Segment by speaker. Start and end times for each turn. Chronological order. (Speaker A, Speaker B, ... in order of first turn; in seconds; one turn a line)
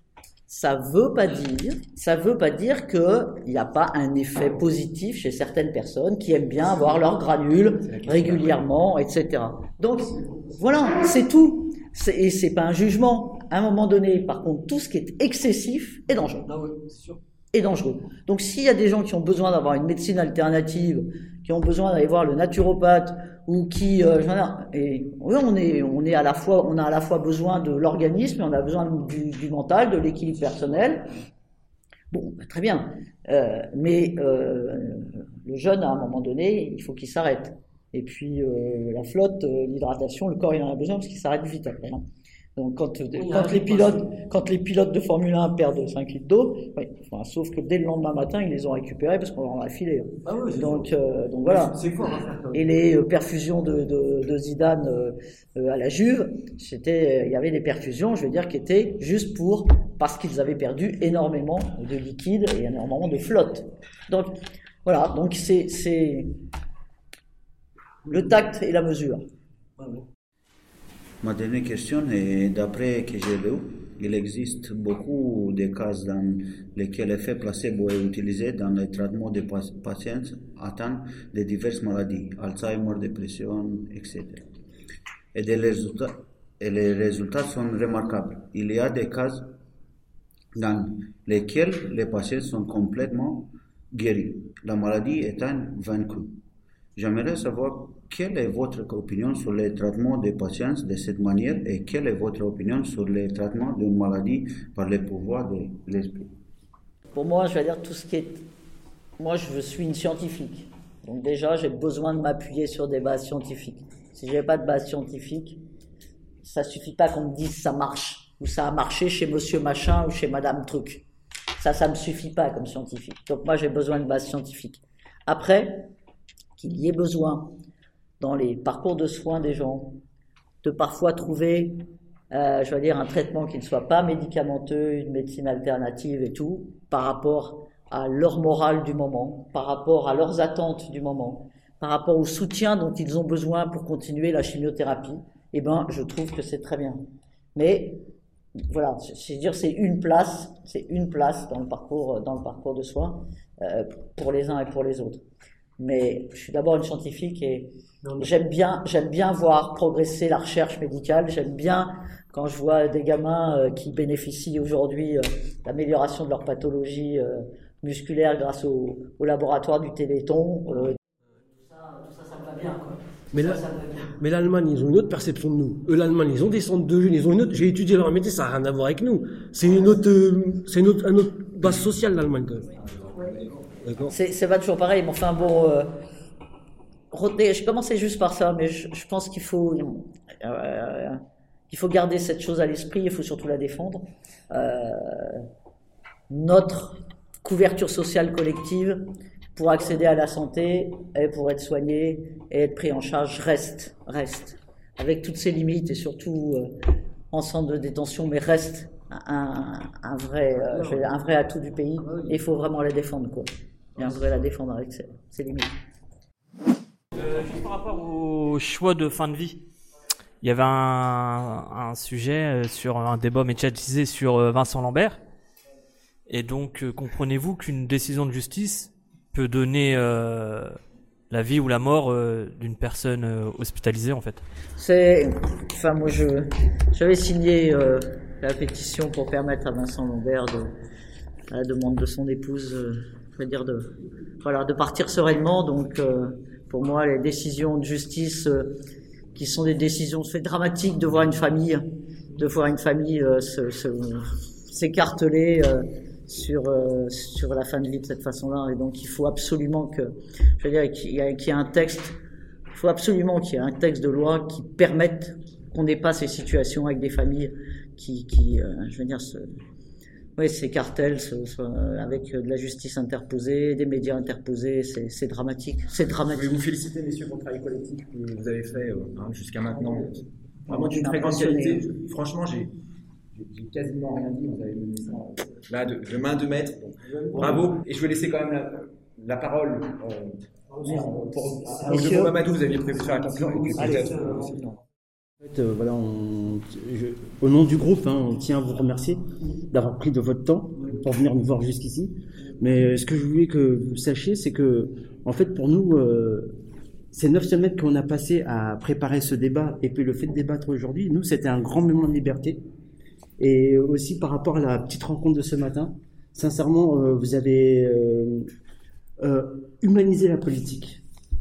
Speaker A: 0.5-16.6
Speaker B: 8.0-8.6
Speaker A: 17.5-31.0
Speaker A: 32.1-42.0
Speaker A: 42.5-51.9
Speaker A: 52.5-64.3
Speaker A: 64.8-66.3
Speaker A: 68.1-69.2
Speaker C: 71.2-84.4
Speaker C: 85.3-89.5
Speaker C: 90.6-96.4
Speaker C: 97.0-106.3
Speaker A: 107.1-108.4
Speaker A: 109.2-115.6
Speaker A: 116.4-121.0
Speaker A: 121.6-125.9
Speaker A: 126.6-127.5
Speaker A: 128.2-130.0
Speaker A: 130.6-131.8
Speaker A: 132.3-147.0
Speaker A: 147.5-148.0
Speaker A: 148.7-155.2
Speaker A: 155.8-171.0
Speaker A: 171.7-173.0
Speaker D: 173.3-182.7
Speaker B: 183.0-183.6
Speaker D: 183.8-184.1
Speaker A: 184.1-185.9
Speaker A: 187.1-195.4
Speaker A: 196.3-199.0
Speaker A: 199.6-206.7
Speaker A: 207.3-215.8
Speaker E: 217.2-219.6
Speaker E: 220.4-225.2
Speaker E: 226.3-230.8
Speaker E: 231.3-234.4
Speaker A: 234.8-240.7
Speaker A: 241.5-243.9
Speaker A: 244.4-248.8
Speaker A: 249.3-251.8
Speaker A: 252.4-262.2
Speaker A: 262.7-269.4
Speaker A: 270.4-276.5
Speaker B: 276.3-282.7
Speaker A: 280.7-281.8
Speaker B: 283.3-290.3
Speaker B: 290.8-294.6
Speaker A: 291.9-292.3
Speaker A: 293.8-294.5
Speaker F: 295.4-306.6
Speaker F: 307.1-312.6
Speaker F: 313.4-318.5
Speaker F: 319.2-321.0